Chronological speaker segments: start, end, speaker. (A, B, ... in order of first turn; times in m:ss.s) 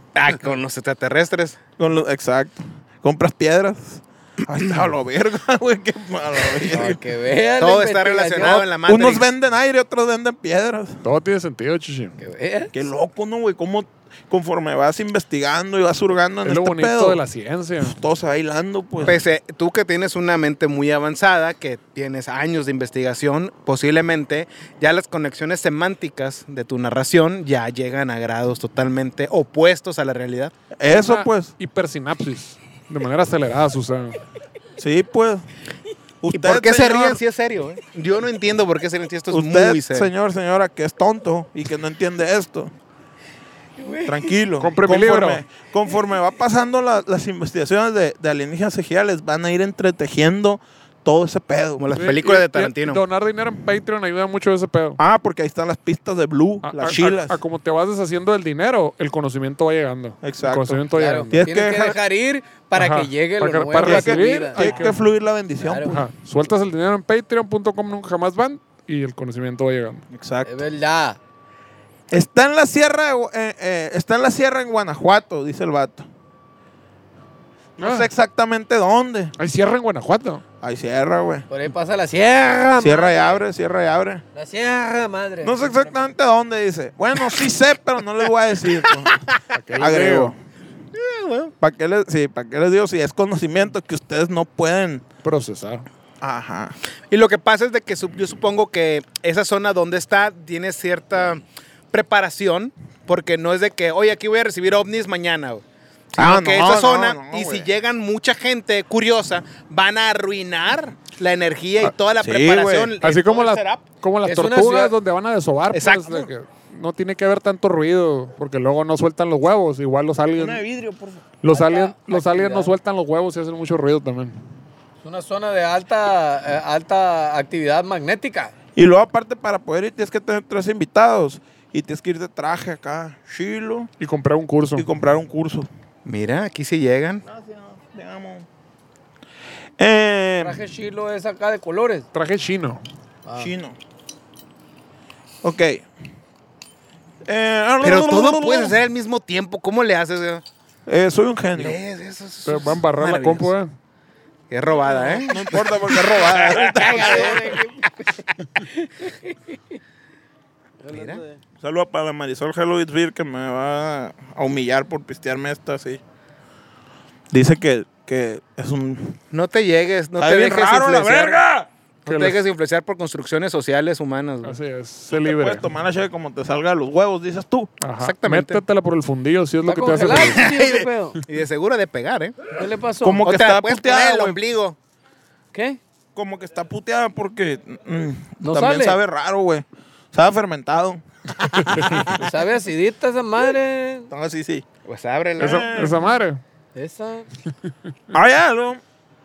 0:00.1-0:01.6 A
0:01.8-0:07.0 B
0:06.7-0:08.7 C
0:07.6-0:09.3 A
0:08.8-0:11.0 B
0:11.0-0:12.1 D
0:12.2-0:12.7 C
0:12.7-0:17.2 B
0:16.4-0:18.0 D
0:17.8-0:19.2 B
0:19.0-0:30.5 A
0:30.8-0:31.5 B
0:30.9-0:34.2 D
0:34.8-0:35.4 B
0:36.2-0:37.2 B
0:36.3-0:40.1 A
0:39.3-0:42.7 B
0:43.8-0:44.3 C
0:44.0-0:51.9 B
0:44.6-0:45.4 D
0:51.8-0:53.0 A
0:51.9-0:55.0 D
0:55.0-0:57.4 B
0:56.6-1:01.4 D
1:00.2-1:02.0 B
1:00.9-1:04.9 C
1:02.7-1:05.0 D
1:03.8-1:06.0 B
1:05.6-1:06.0 C
1:05.9-1:10.0 D
1:10.1-1:10.5 B
1:10.4-1:11.2 C
1:12.1-1:16.0 B
1:17.8-1:19.3 B
1:17.8-1:18.1 D
1:19.4-1:20.4 D
1:20.6-1:21.4 B
1:21.5-1:23.4 C
1:22.8-1:24.2 B
1:24.3-1:25.6 C
1:25.4-1:29.2 B
1:29.0-1:29.4 A
1:29.5-1:30.3 D
1:29.8-1:30.4 B
1:30.9-1:31.5 A
1:31.6-1:35.0 B
1:35.2-1:35.8 D
1:36.2-1:36.7 B
1:37.1-1:53.8 A
1:46.2-1:47.7 B
1:52.2-1:52.9 B
1:53.0-2:00.6 D
1:54.2-1:54.9 C
1:55.7-1:56.3 A
2:00.4-2:01.3 B
2:01.4-2:04.3 D
2:01.5-2:02.7 C
2:05.0-2:08.5 C
2:08.8-2:13.9 B
2:14.0-2:14.9 D
2:14.8-2:15.7 B
2:16.0-2:17.2 A
2:17.2-2:18.4 B
2:19.8-2:20.6 B
2:20.4-2:22.0 C
2:22.1-2:22.8 D
2:23.2-2:23.5 C
2:23.4-2:23.8 B
2:25.4-2:25.8 B
2:27.2-2:28.8 B
2:27.8-2:30.4 A
2:30.8-2:31.8 B
2:31.6-2:33.5 A
2:32.4-2:33.7 D
2:34.5-2:37.6 A
2:35.2-2:37.6 B
2:36.7-2:37.9 C
2:38.7-2:39.8 C
2:40.8-2:41.4 C
2:40.9-2:41.2 A
2:41.6-2:46.0 B
2:47.3-2:49.2 B
2:49.3-2:51.4 A
2:50.2-2:51.7 B
2:52.0-2:54.6 A
2:52.0-2:52.4 D
2:54.4-2:55.6 D
2:55.1-2:57.7 B
2:57.8-3:00.5 D
2:58.0-2:58.6 A
2:59.6-3:01.2 C
3:00.1-3:02.4 A
3:02.5-3:03.2 C
3:03.0-3:04.4 B
3:03.2-3:04.8 A
3:05.5-3:05.8 C
3:06.1-3:12.1 B
3:08.4-3:09.0 C
3:12.1-3:14.1 C
3:14.1-3:14.6 B
3:14.8-3:15.7 A
3:15.4-3:16.0 B
3:15.4-3:16.4 D
3:16.7-3:17.3 C
3:18.1-3:18.8 B